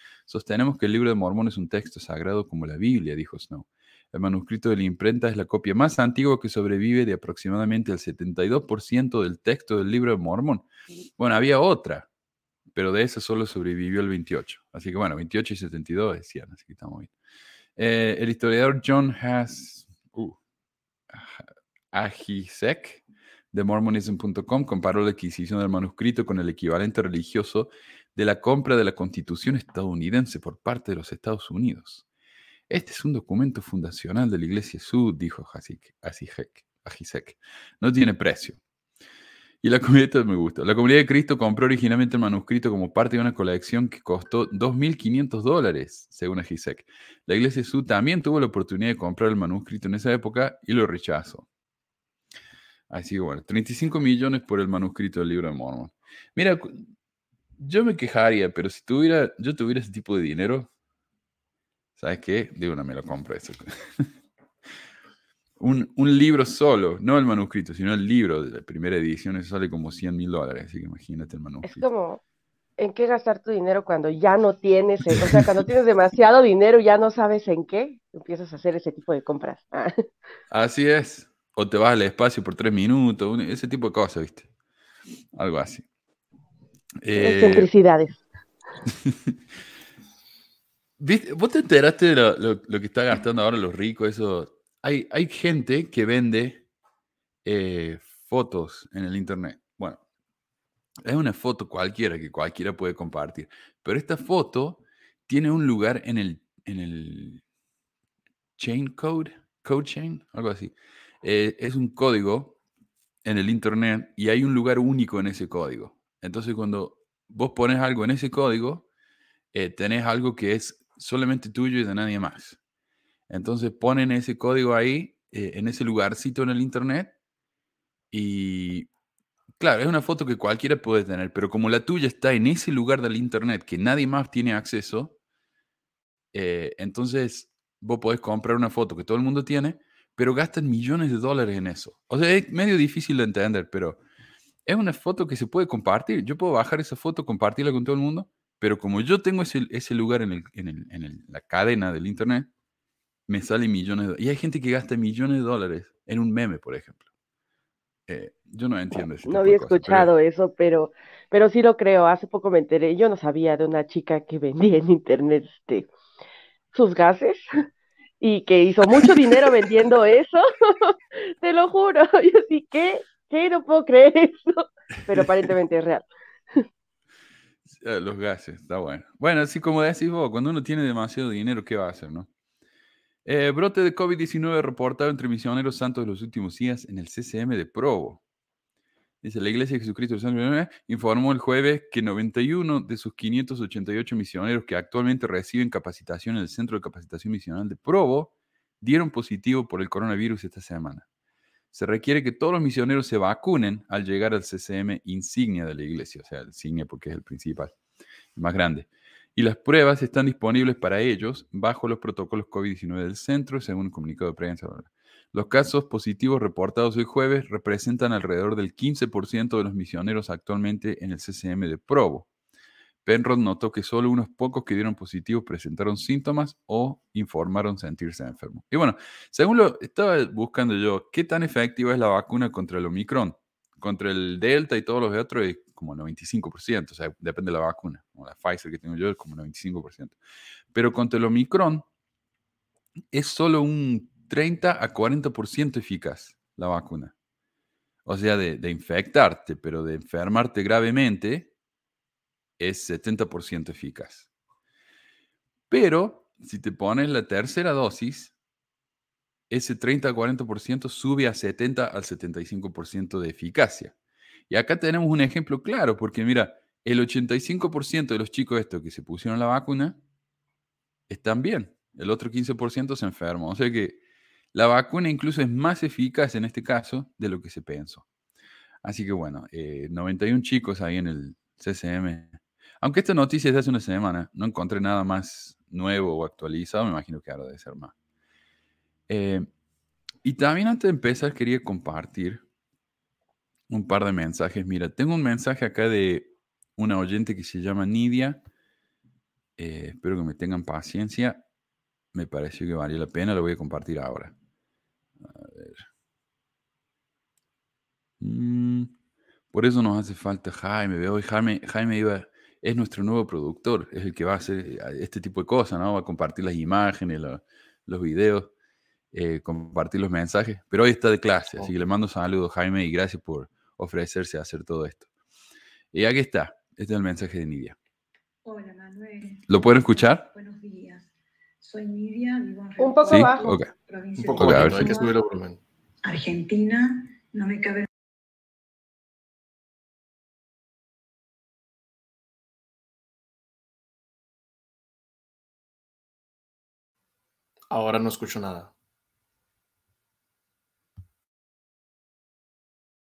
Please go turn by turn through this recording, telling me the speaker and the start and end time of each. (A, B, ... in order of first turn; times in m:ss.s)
0:00.3-0:10.7 A
0:11.2-0:12.1 A
0:12.7-0:17.1 A
0:17.8-0:20.4 A
0:21.1-0:32.0 A
0:32.7-0:38.6 A
0:39.6-0:51.5 A
0:52.9-0:56.9 A
0:57.6-1:00.7 A
1:02.0-1:04.1 A
1:05.6-1:11.9 A
1:11.6-1:12.2 B
1:12.8-1:19.9 B
1:15.1-1:15.4 A
1:20.5-1:24.5 A
1:25.4-1:25.8 A
1:27.0-1:27.7 A
1:27.2-1:28.2 B
1:28.9-1:29.4 A
1:31.0-1:36.6 A
1:37.4-1:40.0 A
1:41.0-1:47.4 A
1:48.6-1:52.6 A
1:53.2-1:58.9 A
1:59.5-2:02.6 A
2:03.3-2:07.2 A
2:08.1-2:08.9 A
2:09.6-2:15.2 A
2:16.3-2:24.0 A
2:24.7-2:32.5 A
2:33.3-2:37.0 A
2:38.1-2:40.1 A
2:39.2-2:45.9 B
2:46.7-2:47.4 B
2:48.2-2:56.6 B
2:57.7-3:02.3 A
3:03.2-3:08.2 A
3:09.2-3:21.1 A
3:21.7-3:27.7 A
3:28.4-3:42.3 A
3:43.0-4:00.2 A
4:00.7-4:01.8 A
4:03.1-4:07.1 A
4:08.1-4:11.5 A
4:12.6-4:14.3 A
4:15.7-4:18.3 A
4:19.5-4:24.0 A
4:24.5-4:30.0 A
4:31.1-4:34.0 A
4:34.5-4:38.0 A
4:38.8-4:47.9 A
4:49.1-4:49.5 A
4:50.2-4:52.4 A
4:53.7-4:58.4 A
4:59.6-5:01.4 A
5:02.1-5:04.3 A
5:05.2-5:05.9 A
5:08.2-5:08.9 A
5:09.5-5:18.5 A
5:19.1-5:25.0 A
5:25.9-5:27.8 A
5:28.4-5:31.1 C
5:29.5-5:30.3 A
5:31.6-5:35.2 C
5:32.8-5:33.5 B
5:33.1-5:33.7 A
5:34.2-5:35.6 D
5:34.4-5:34.9 A
5:36.0-5:37.9 C
5:47.7-5:48.7 D